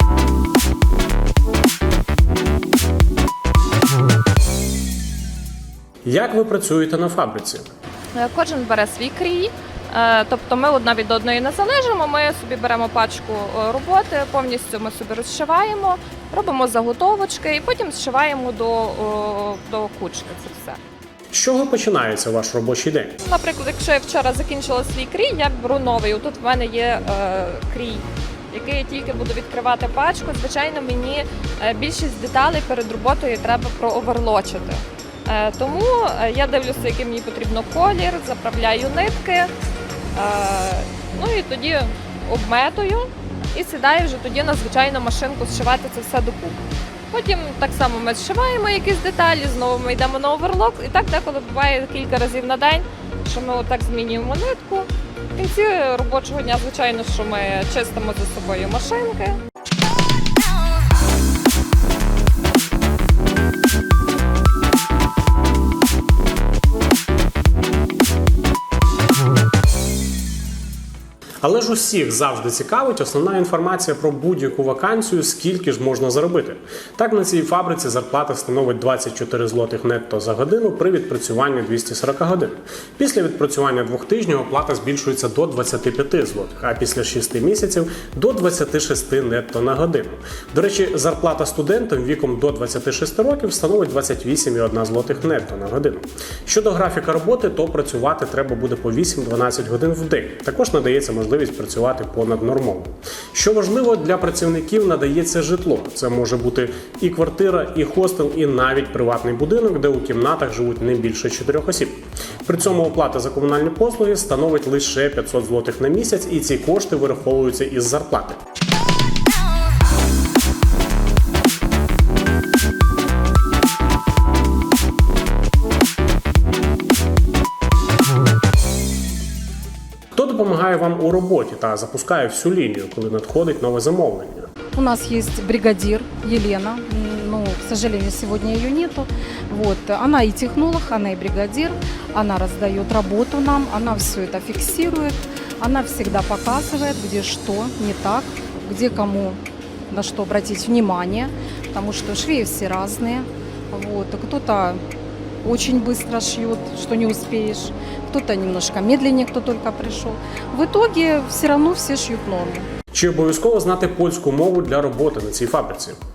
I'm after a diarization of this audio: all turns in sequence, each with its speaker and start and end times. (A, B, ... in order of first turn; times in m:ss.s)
0:06.0-0:07.7 A
0:08.2-0:20.8 B
0:21.3-0:23.2 A
0:23.3-0:39.5 B
0:40.2-0:46.6 B
0:47.1-0:59.4 B
1:11.4-1:58.4 A
2:10.2-2:14.5 A
2:14.8-2:34.8 C
2:35.4-2:42.7 C
2:42.9-2:46.0 A